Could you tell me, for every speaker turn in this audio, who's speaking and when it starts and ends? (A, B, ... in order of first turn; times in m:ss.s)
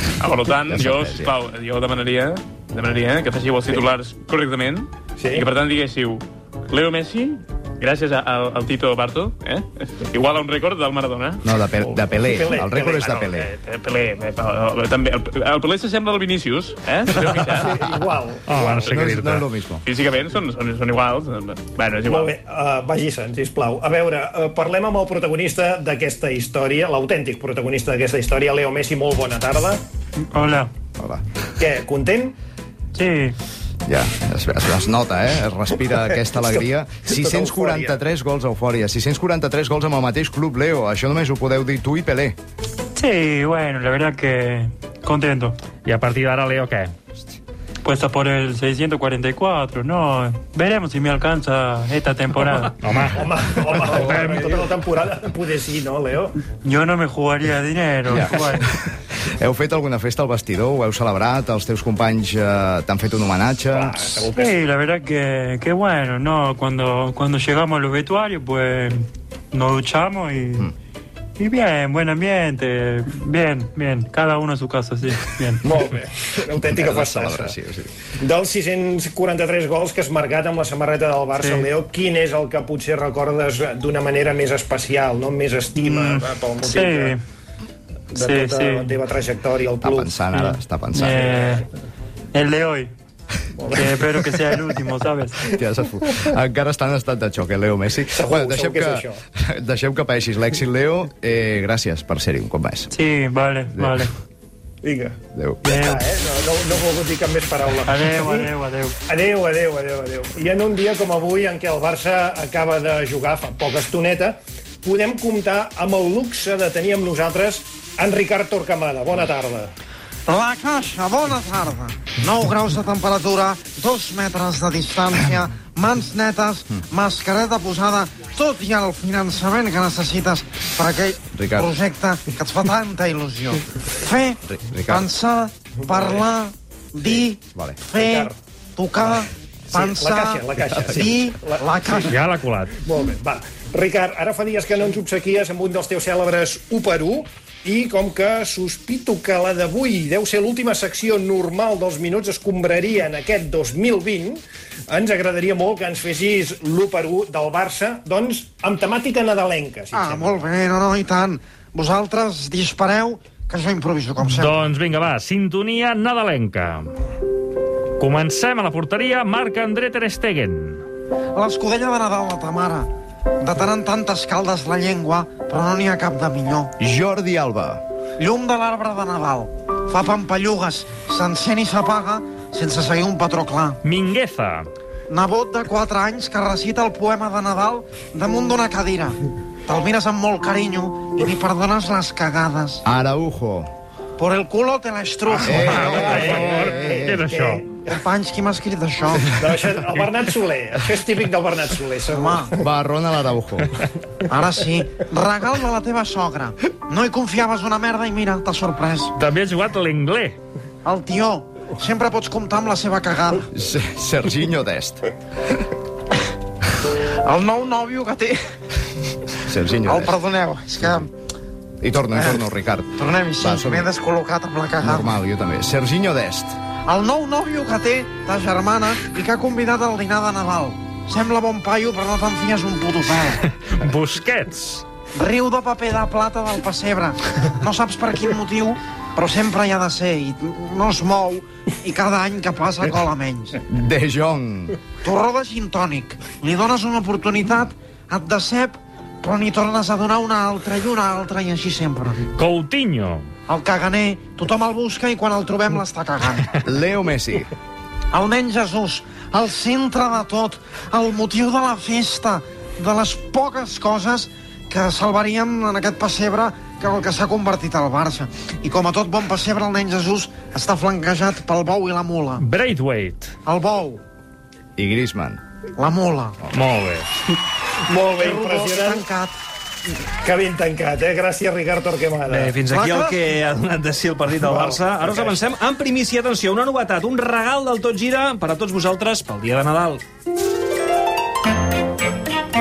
0:00.2-0:11.4 A
0:00.7-0:01.3 B
0:05.2-0:05.5 C
0:11.4-0:13.5 B
0:11.8-0:13.2 C
0:13.2-0:17.7 A
0:17.2-0:19.0 C
0:18.5-0:19.4 D
0:18.9-0:19.8 B
0:19.9-0:22.3 A
0:22.1-0:29.8 C
0:30.3-0:30.7 E
0:31.0-0:31.2 B
0:31.6-0:32.4 C
0:33.0-0:33.4 E
0:33.9-0:42.4 B
0:37.1-0:38.0 C
0:43.0-0:45.5 E
0:45.8-0:46.9 D
0:47.8-0:52.7 E
0:53.1-0:56.4 C
0:56.7-0:58.6 E
0:58.1-1:04.2 B
1:03.7-1:04.6 C
1:04.4-1:08.9 E
1:09.5-1:10.7 E
1:11.4-1:15.6 E
1:15.6-1:17.6 C
1:16.6-1:17.9 B
1:18.2-1:27.2 C
1:21.4-1:21.7 E
1:26.6-1:27.2 E
1:28.1-1:30.3 C
1:28.2-1:28.9 E
1:29.8-1:31.2 B
1:31.0-1:31.6 E
1:32.3-1:32.9 E
1:33.6-1:34.7 C
1:33.8-1:35.3 E
1:35.6-1:42.9 B
1:38.1-1:39.2 C
1:43.7-1:44.1 B
1:44.8-1:48.5 C
1:45.3-1:45.6 B
1:48.0-1:48.6 E
1:49.1-1:59.7 C
2:00.3-2:22.0 F
2:11.4-2:11.7 B
2:14.5-2:15.1 B
2:15.9-2:16.3 C
2:18.0-2:18.4 C
2:19.7-2:22.1 C
2:20.6-2:21.0 B
2:22.1-2:22.8 D
2:22.8-2:40.4 C
2:39.9-2:44.7 F
2:44.2-2:46.9 D
2:48.0-2:50.8 D
2:51.4-2:52.9 F
2:53.4-2:56.7 F
2:56.8-2:57.8 B
2:58.2-3:03.8 F
3:03.8-3:04.7 D
3:05.1-3:12.8 F
3:12.8-3:13.7 B
3:14.2-3:16.2 F
3:15.5-3:17.2 B
3:15.6-3:17.6 D
3:16.0-3:17.7 C
3:17.9-3:19.3 F
3:19.3-3:22.6 C
3:22.1-3:22.5 F
3:22.6-3:23.7 B
3:24.3-3:29.1 F
3:29.2-3:30.4 D
3:30.8-3:33.4 F
3:33.5-3:35.0 B
3:37.0-3:38.4 F
3:39.5-3:40.2 B
3:39.8-3:41.1 F
3:40.8-3:41.0 B
3:41.8-3:43.9 B
3:42.2-3:42.4 F
3:43.0-3:45.2 F
3:44.8-3:46.6 B
3:46.9-3:53.4 F
3:53.6-3:54.8 D
3:55.2-4:03.6 F
4:03.7-4:04.8 B
4:05.0-4:12.2 F
4:12.4-4:13.3 D
4:13.5-4:16.5 F
4:16.6-4:17.5 B
4:18.1-4:32.4 F
4:32.4-4:33.3 D
4:33.5-4:34.0 F
4:34.8-4:35.4 B
4:35.8-4:36.4 F
4:36.5-4:37.1 D
4:37.9-4:39.1 C
4:38.1-4:39.4 F
4:40.2-4:42.6 C
4:42.3-4:50.0 G
4:42.7-4:43.2 F
4:44.4-4:45.4 C